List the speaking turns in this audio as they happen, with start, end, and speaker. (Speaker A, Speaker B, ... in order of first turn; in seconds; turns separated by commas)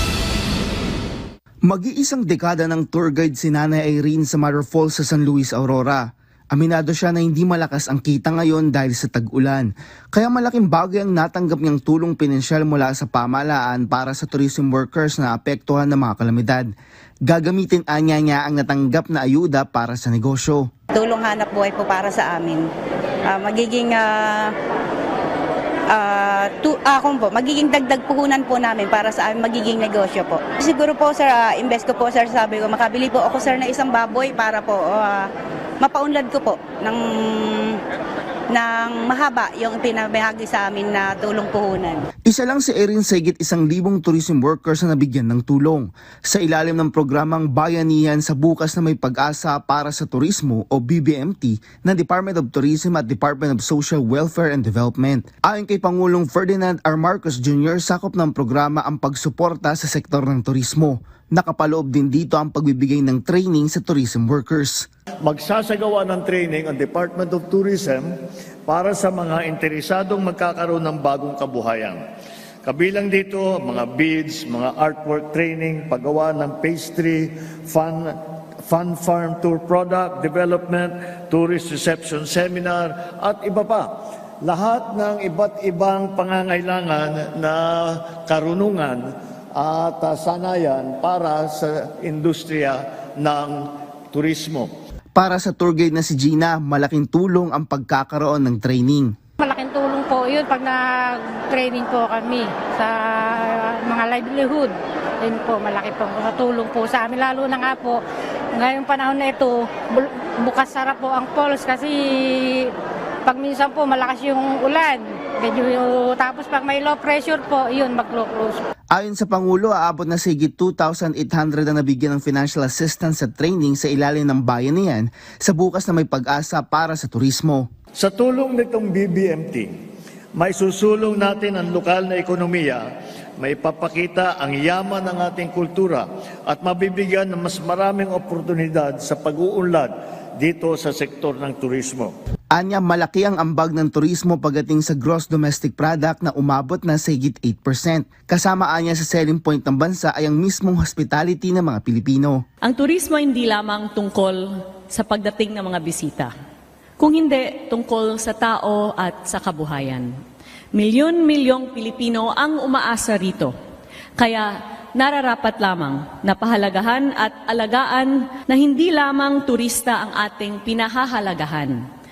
Speaker A: 1.6-16.7, Speaker A: 17.3-20.7, Speaker B: 20.9-22.7, Speaker B: 23.2-24.5, Speaker B: 25.9-35.3, Speaker B: 35.8-37.8, Speaker B: 38.5-42.0, Speaker A: 42.2-64.9, Speaker C: 65.2-68.1, Speaker C: 68.7-72.0, Speaker C: 72.6-78.1, Speaker C: 78.7-83.9, Speaker C: 84.4-93.6, Speaker C: 94.1-94.7, Speaker A: 95.1-99.1, Speaker D: 99.4-108.0, Speaker D: 108.5-112.7, Speaker D: 113.2-118.6, Speaker A: 118.9-127.7, Speaker C: 128.0-129.7, Speaker C: 130.3-132.8, Speaker C: 133.4-142.1, Speaker A: 142.5-152.4, Speaker E: 152.6-156.3, Speaker E: 157.0-160.1, Speaker E: 160.7-163.5, Speaker E: 164.2-171.8